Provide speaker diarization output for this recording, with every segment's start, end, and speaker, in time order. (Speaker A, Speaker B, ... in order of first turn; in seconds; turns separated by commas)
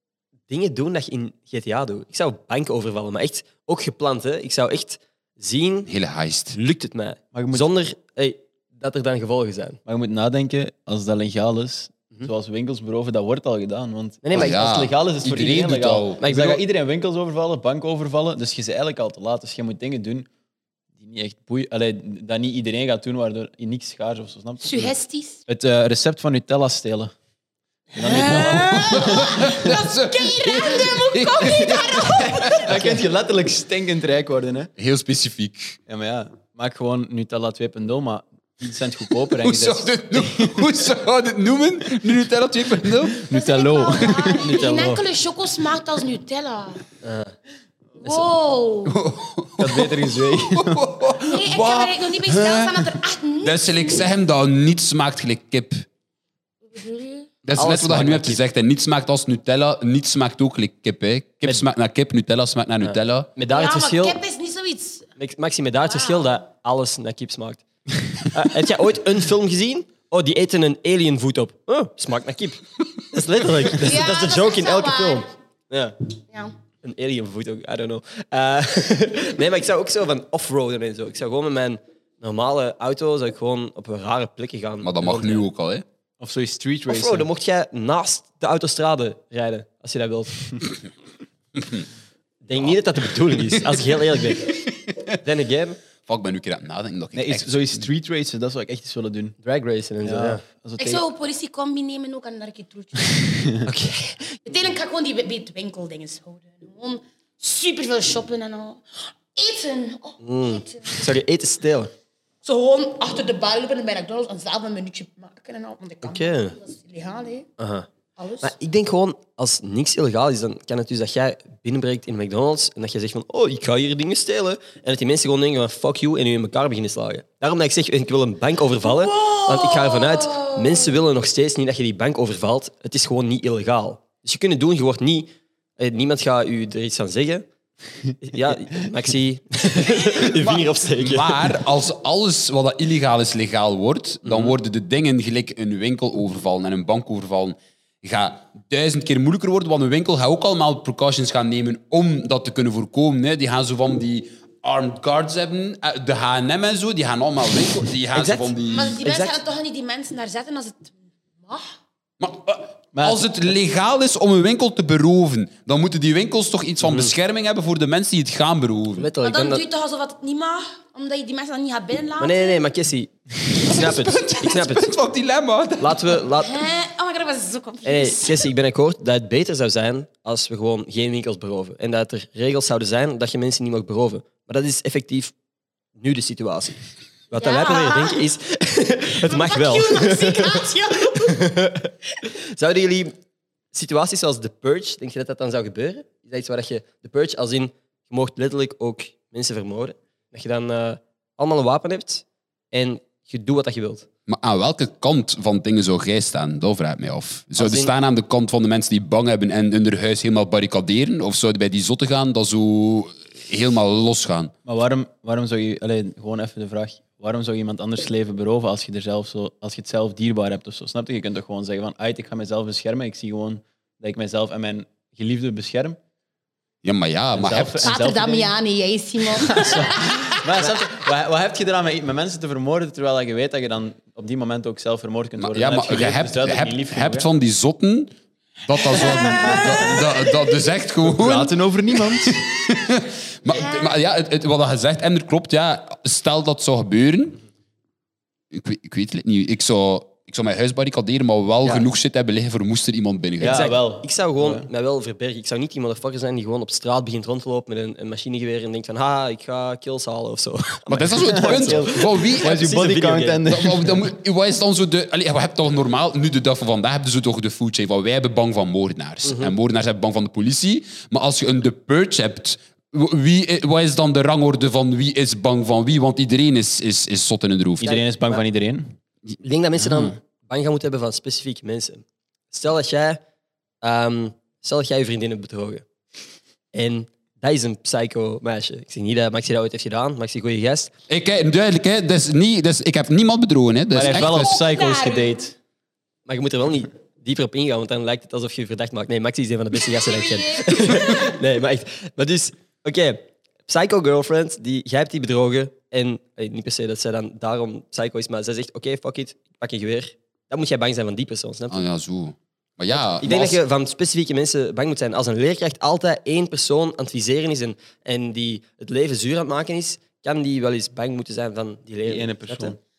Speaker A: 0.5-5.9, Speaker B: 5.9-6.6, Speaker A: 6.5-9.8, Speaker C: 7.3-7.7, Speaker C: 9.9-20.3, Speaker A: 14.2-14.7, Speaker B: 14.3-16.2, Speaker A: 16.2-16.6, Speaker C: 21.0-25.0, Speaker D: 24.6-25.4, Speaker C: 25.5-27.1, Speaker C: 27.9-29.7, Speaker D: 28.0-32.7, Speaker B: 28.1-33.0, Speaker C: 31.5-31.7, Speaker C: 32.3-34.7, Speaker B: 34.8-35.8, Speaker C: 35.9-40.8, Speaker B: 39.3-43.3, Speaker C: 43.2-44.7, Speaker D: 43.3-46.8, Speaker A: 44.4-45.0, Speaker A: 47.0-47.4, Speaker D: 48.0-49.0, Speaker B: 48.9-55.9, Speaker C: 49.6-50.8, Speaker D: 51.3-54.1, Speaker D: 56.7-57.4, Speaker B: 57.4-63.5, Speaker A: 57.5-58.4, Speaker A: 62.8-64.2, Speaker D: 63.5-65.1, Speaker A: 65.2-67.6, Speaker D: 65.9-66.2, Speaker A: 68.1-76.0, Speaker D: 73.8-75.3, Speaker A: 76.8-85.5, Speaker B: 84.8-85.8, Speaker C: 86.2-87.3, Speaker A: 86.9-90.5, Speaker B: 91.6-91.9, Speaker A: 92.5-95.8, Speaker B: 93.4-93.9, Speaker B: 94.9-95.2, Speaker B: 96.0-97.8, Speaker C: 97.2-99.3, Speaker A: 99.4-100.4, Speaker C: 100.0-101.0, Speaker D: 100.8-103.3, Speaker C: 103.2-103.7, Speaker A: 103.6-104.4, Speaker D: 104.5-108.8, Speaker D: 109.3-111.0, Speaker A: 110.2-111.9, Speaker D: 112.4-117.5, Speaker A: 116.0-116.6, Speaker A: 117.6-117.9, Speaker D: 118.2-118.5, Speaker A: 118.4-137.4, Speaker D: 129.0-130.8, Speaker A: 138.2-141.5, Speaker B: 140.3-159.1, Speaker A: 144.2-144.6, Speaker A: 158.1-159.4, Speaker D: 158.7-161.7, Speaker B: 162.2-169.1, Speaker C: 162.9-163.3, Speaker A: 166.8-167.1, Speaker A: 169.0-169.7, Speaker D: 169.2-172.6, Speaker A: 172.2-174.9, Speaker B: 173.7-176.3, Speaker D: 173.7-174.5, Speaker A: 175.8-176.6, Speaker D: 176.3-178.5, Speaker A: 177.8-185.3, Speaker A: 186.0-186.8, Speaker A: 187.3-193.1, Speaker D: 187.3-188.2, Speaker D: 189.2-191.4, Speaker A: 193.7-204.1, Speaker B: 204.3-214.5, Speaker A: 207.6-207.9, Speaker C: 214.7-226.0, Speaker B: 226.8-227.9, Speaker C: 227.3-228.5, Speaker D: 227.8-230.6, Speaker C: 229.2-237.3, Speaker B: 235.4-238.1, Speaker B: 238.7-247.4, Speaker D: 239.0-240.5, Speaker C: 241.1-242.4, Speaker D: 243.5-244.0, Speaker B: 248.5-253.6, Speaker C: 253.4-254.7, Speaker A: 253.4-263.4, Speaker B: 260.9-262.6, Speaker C: 261.3-264.1, Speaker B: 263.4-277.9, Speaker A: 269.2-269.5, Speaker A: 277.8-278.4, Speaker C: 277.8-279.0, Speaker A: 279.4-283.2, Speaker C: 279.8-280.1, Speaker A: 283.8-285.9, Speaker A: 286.7-290.9, Speaker B: 291.1-294.6, Speaker C: 293.9-295.6, Speaker D: 294.3-295.4, Speaker A: 296.3-311.8, Speaker D: 299.9-301.3, Speaker B: 311.7-313.6, Speaker A: 312.9-322.8, Speaker C: 322.1-322.8